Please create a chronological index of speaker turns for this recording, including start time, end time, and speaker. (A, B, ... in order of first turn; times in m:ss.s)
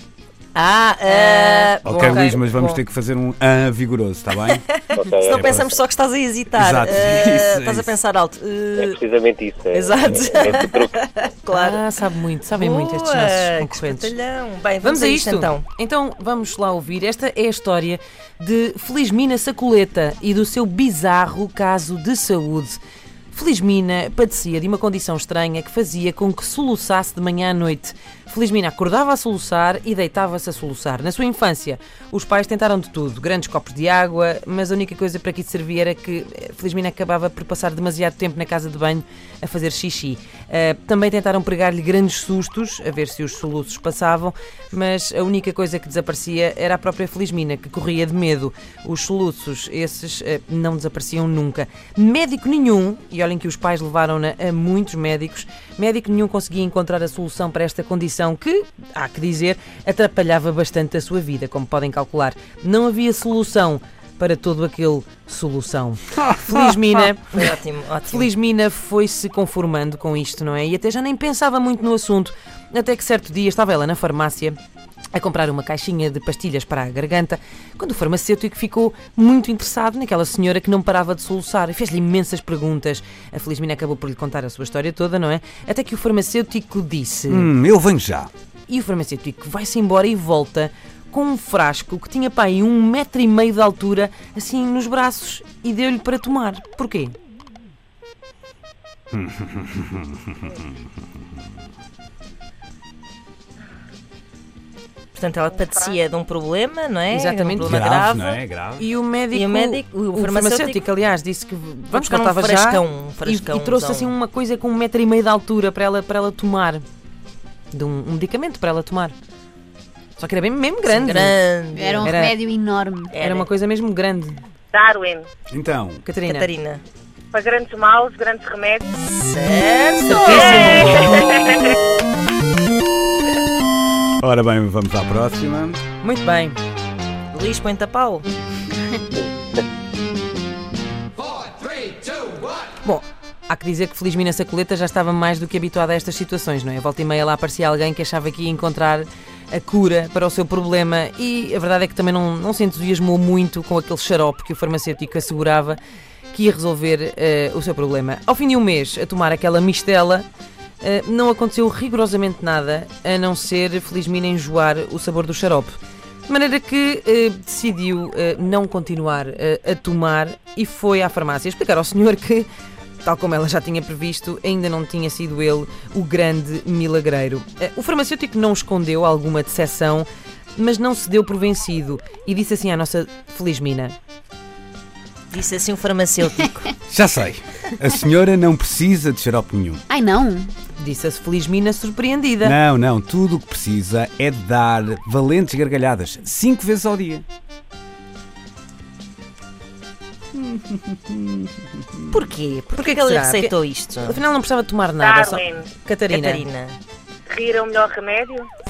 0:00.5-0:02.8 A
0:01.8-0:04.6 B
0:02.0-0:02.3 C
0:04.9-0:09.0 A
0:04.9-0:05.7 D
0:05.2-0:05.7 B
0:06.5-0:07.9 B
0:08.8-0:10.9 D
0:09.7-0:11.8 A
0:11.5-0:14.1 C
0:12.6-0:15.6 A
0:14.8-0:22.8 C
0:23.3-1:07.6 C
1:06.3-1:06.7 B
1:07.3-1:08.3 A
1:08.1-1:14.6 C
1:15.1-1:27.5 C
1:27.3-1:28.3 B
1:28.7-1:37.2 C
1:39.1-1:40.8 B
1:45.1-1:48.4 A
1:47.1-1:47.7 C
1:47.6-1:48.9 B
1:48.8-1:56.8 C
1:49.3-1:50.8 A
1:51.9-1:54.1 A
1:57.7-1:59.1 C
2:00.2-2:01.4 C
2:00.9-2:02.1 A
2:01.7-2:03.2 E
2:02.0-2:02.4 C
2:03.1-2:03.5 A
2:03.2-2:04.4 C
2:04.7-2:05.3 F
2:05.5-2:06.0 B
2:06.0-2:06.5 C
2:06.2-2:06.8 A
2:07.3-2:09.1 F
2:09.1-2:11.4 A
2:10.0-2:11.3 C
2:10.2-2:11.7 F
2:14.2-2:15.8 B
2:16.0-2:16.6 C
2:17.3-2:18.3 A
2:22.8-2:35.8 C
2:36.3-2:40.2 C
2:40.8-2:52.5 C
2:53.0-3:04.0 C
3:05.3-3:06.7 A
3:06.9-3:09.8 B
3:09.9-3:10.5 E
3:10.8-3:12.6 C
3:12.4-3:17.2 B
3:20.3-3:22.1 B
3:22.1-3:24.2 A
3:22.7-3:26.4 C
3:25.0-3:25.7 F
3:26.1-3:26.8 A
3:27.3-3:28.5 F